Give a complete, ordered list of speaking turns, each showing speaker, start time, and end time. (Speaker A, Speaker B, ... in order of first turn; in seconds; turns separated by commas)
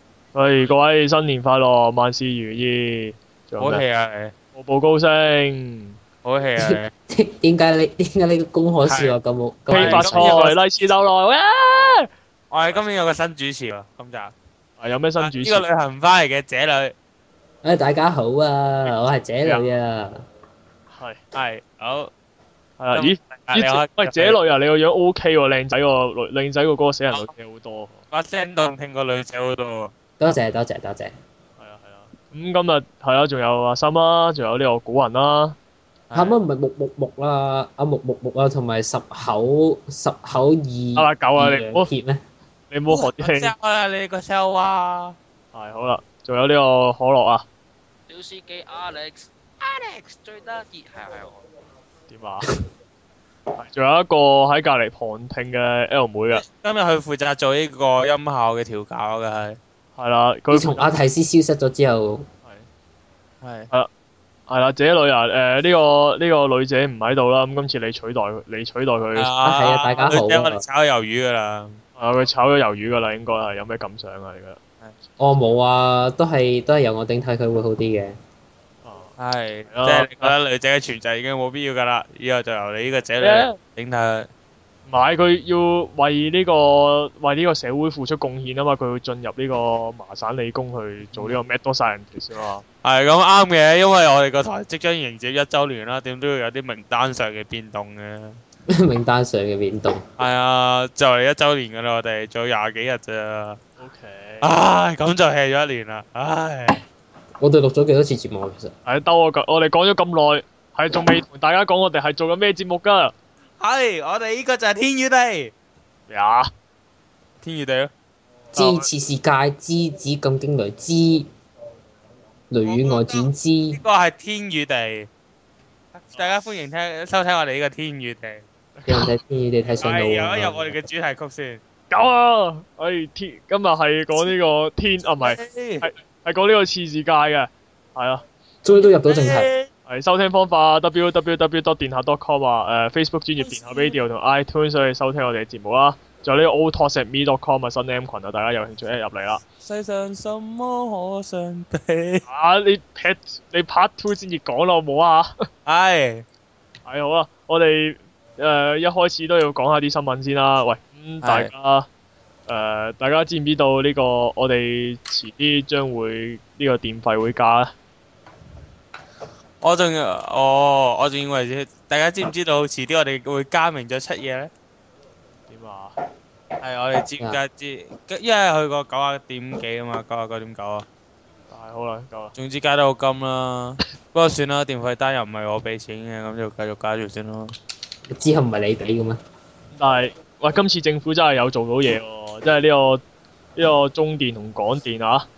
Speaker A: 0.3-3.8, Speaker B: 3.6-4.3, Speaker A: 4.5-6.0, Speaker B: 6.2-6.9, Speaker C: 6.6-10.5, Speaker B: 8.8-9.1, Speaker A: 9.7-12.1, Speaker B: 9.7-10.6, Speaker B: 12.5-14.3, Speaker A: 14.8-15.6, Speaker B: 15.2-16.9, Speaker C: 17.6-20.2, Speaker A: 20.9-21.2, Speaker B: 21.3-22.1, Speaker A: 22.8-28.0, Speaker B: 22.9-24.4, Speaker B: 28.1-29.9, Speaker C: 30.2-31.1, Speaker A: 31.6-35.6, Speaker B: 36.1-36.4, Speaker C: 36.1-42.2, Speaker A: 41.0-41.9, Speaker A: 42.7-43.5, Speaker B: 42.9-45.2, Speaker A: 45.5-47.4, Speaker D: 48.1-51.4, Speaker A: 52.1-52.5, Speaker A: 53.6-56.4, Speaker B: 56.3-59.6, Speaker A: 60.0-60.9, Speaker C: 60.5-62.2, Speaker B: 63.4-63.7, Speaker A: 64.5-69.3, Speaker B: 69.2-71.8, Speaker C: 69.4-70.6, Speaker A: 72.0-74.6, Speaker C: 75.2-78.2, Speaker A: 78.8-79.2, Speaker B: 79.2-84.3, Speaker A: 79.7-80.3, Speaker A: 83.2-83.6, Speaker A: 84.9-92.6, Speaker B: 91.1-91.4, Speaker B: 92.8-98.4, Speaker C: 98.7-100.0, Speaker B: 100.2-103.6, Speaker A: 103.8-104.5, Speaker B: 104.4-106.8, Speaker C: 107.4-108.7, Speaker A: 108.8-113.1, Speaker B: 113.6-115.5, Speaker A: 116.1-116.5, Speaker B: 117.4-117.9, Speaker A: 118.5-118.9, Speaker C: 118.5-121.3, Speaker C: 122.5-123.8, Speaker B: 122.6-125.1, Speaker B: 125.9-128.4, Speaker A: 128.8-129.1, Speaker C: 128.9-130.8, Speaker B: 129.8-131.6, Speaker A: 131.9-138.2, Speaker B: 135.2-135.9, Speaker C: 138.6-139.5, Speaker B: 138.7-139.7, Speaker A: 139.8-149.4, Speaker B: 143.4-144.0, Speaker B: 149.6-152.2, Speaker A: 152.3-155.4, Speaker B: 155.7-156.2, Speaker A: 156.8-161.9, Speaker B: 161.2-161.5, Speaker A: 162.5-167.7, Speaker B: 169.6-174.5, Speaker A: 175.5-176.0, Speaker B: 176.6-180.8, Speaker A: 181.5-182.3, Speaker B: 182.3-187.5, Speaker C: 188.1-189.2, Speaker A: 189.8-193.0, Speaker A: 193.6-195.3